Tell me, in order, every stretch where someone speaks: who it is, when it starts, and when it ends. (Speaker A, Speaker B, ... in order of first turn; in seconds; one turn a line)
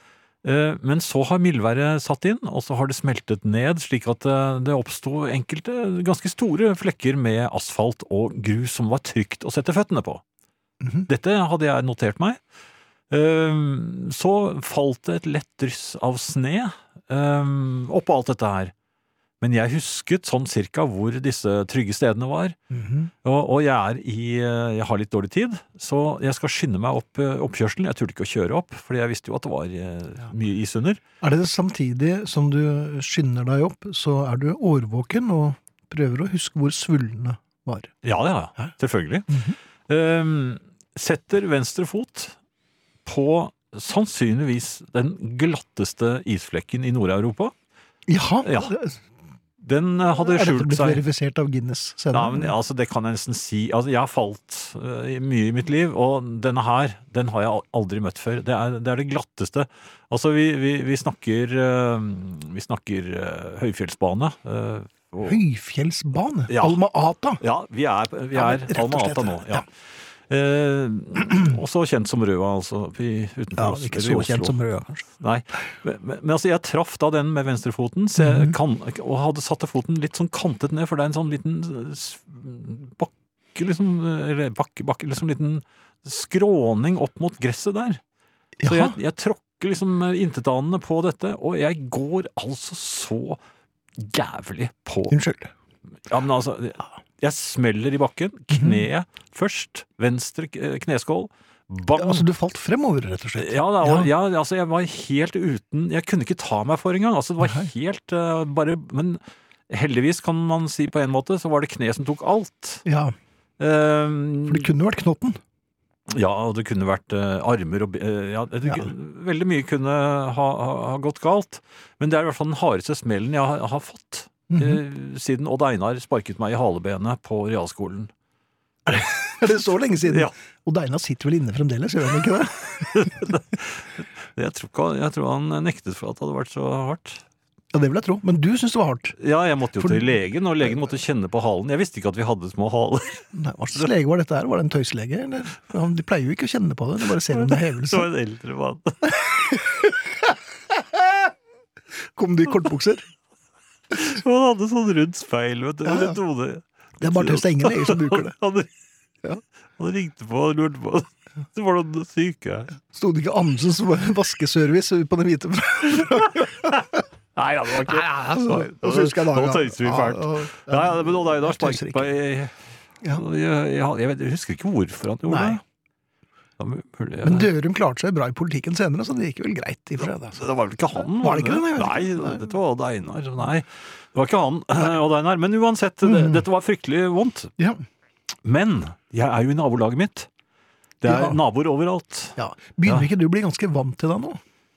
Speaker A: 0.4-10.2
Speaker B: 10.8-11.1
Speaker A: 11.1-12.4
Speaker A: 13.1-18.7
Speaker A: 19.4-22.6
Speaker B: 22.7-23.1
Speaker A: 23.2-31.0
Speaker B: 31.2-37.9
Speaker A: 38.0-42.4
Speaker B: 39.3-39.6
Speaker A: 43.1-47.5
Speaker B: 48.1-49.0
Speaker A: 48.4-48.7
Speaker A: 49.6-51.0
Speaker B: 50.2-52.5
Speaker A: 52.1-65.4
Speaker B: 65.2-67.4
Speaker A: 66.5-66.8
Speaker A: 67.4-69.7
Speaker B: 68.3-69.7
Speaker A: 70.3-74.6
Speaker B: 73.6-75.1
Speaker A: 75.2-88.0
Speaker B: 78.2-78.5
Speaker B: 88.6-89.0
Speaker A: 88.7-93.4
Speaker A: 94.0-95.2
Speaker B: 95.1-95.5
Speaker A: 96.1-102.2
Speaker B: 98.5-98.8
Speaker B: 102.0-104.1
Speaker A: 103.4-112.8
Speaker B: 107.4-107.7
Speaker B: 112.9-113.2
Speaker A: 113.6-114.7
Speaker B: 114.5-115.4
Speaker A: 116.1-128.1
Speaker B: 118.7-118.9
Speaker B: 124.5-124.8
Speaker B: 128.9-133.3
Speaker A: 130.1-130.3
Speaker A: 132.9-137.2
Speaker B: 137.7-139.2
Speaker A: 139.2-143.2
Speaker B: 139.8-140.1
Speaker B: 143.3-148.1
Speaker A: 147.3-149.2
Speaker B: 149.1-151.0
Speaker B: 152.2-153.1
Speaker A: 153.9-158.7
Speaker B: 155.8-156.2
Speaker B: 157.0-158.3
Speaker A: 159.8-162.7
Speaker B: 162.8-167.0
Speaker A: 167.4-172.6
Speaker B: 167.7-172.1
Speaker A: 173.1-175.6
Speaker B: 175.3-175.6
Speaker A: 176.6-177.5
Speaker B: 177.2-180.4
Speaker A: 180.3-187.5
Speaker B: 181.2-182.4
Speaker B: 186.0-186.4
Speaker B: 187.6-187.8
Speaker A: 188.4-190.3
Speaker A: 191.0-193.1
Speaker B: 191.1-191.4
Speaker B: 192.4-194.4